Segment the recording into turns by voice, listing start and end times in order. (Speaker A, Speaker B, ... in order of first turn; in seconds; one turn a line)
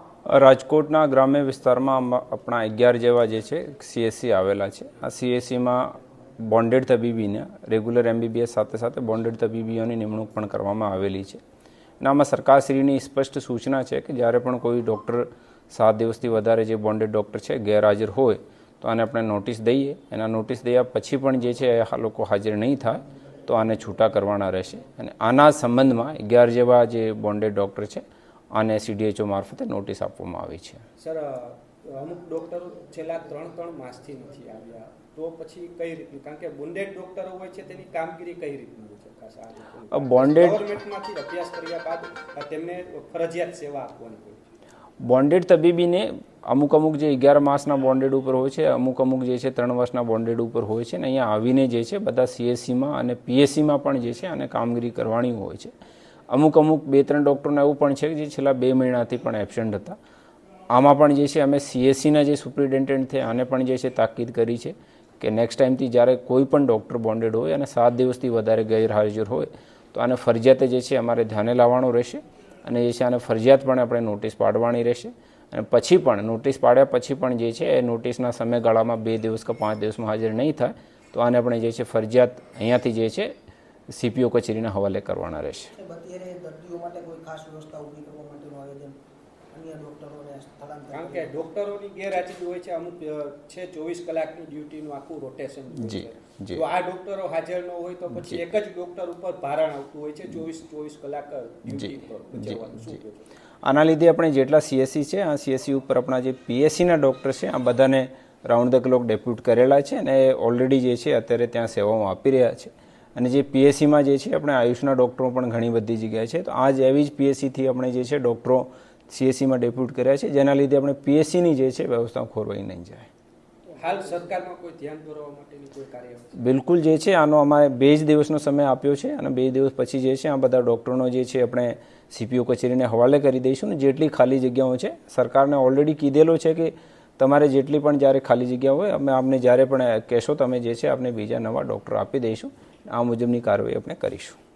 Speaker A: 0.3-11.4
Speaker A: 12.0-28.0
Speaker A: 28.5-30.8
Speaker B: 31.0-44.5
Speaker A: 39.9-40.6
Speaker A: 45.0-55.7
Speaker A: 56.3-60.0
Speaker A: 60.7-83.3
Speaker A: 83.9-85.7
Speaker C: 85.7-89.0
Speaker C: 89.5-91.4
Speaker B: 90.9-103.3
Speaker A: 95.8-96.6
Speaker A: 98.1-98.4
Speaker A: 101.7-102.9
Speaker A: 103.6-123.1
Speaker B: 123.8-126.5
Speaker A: 126.4-144.4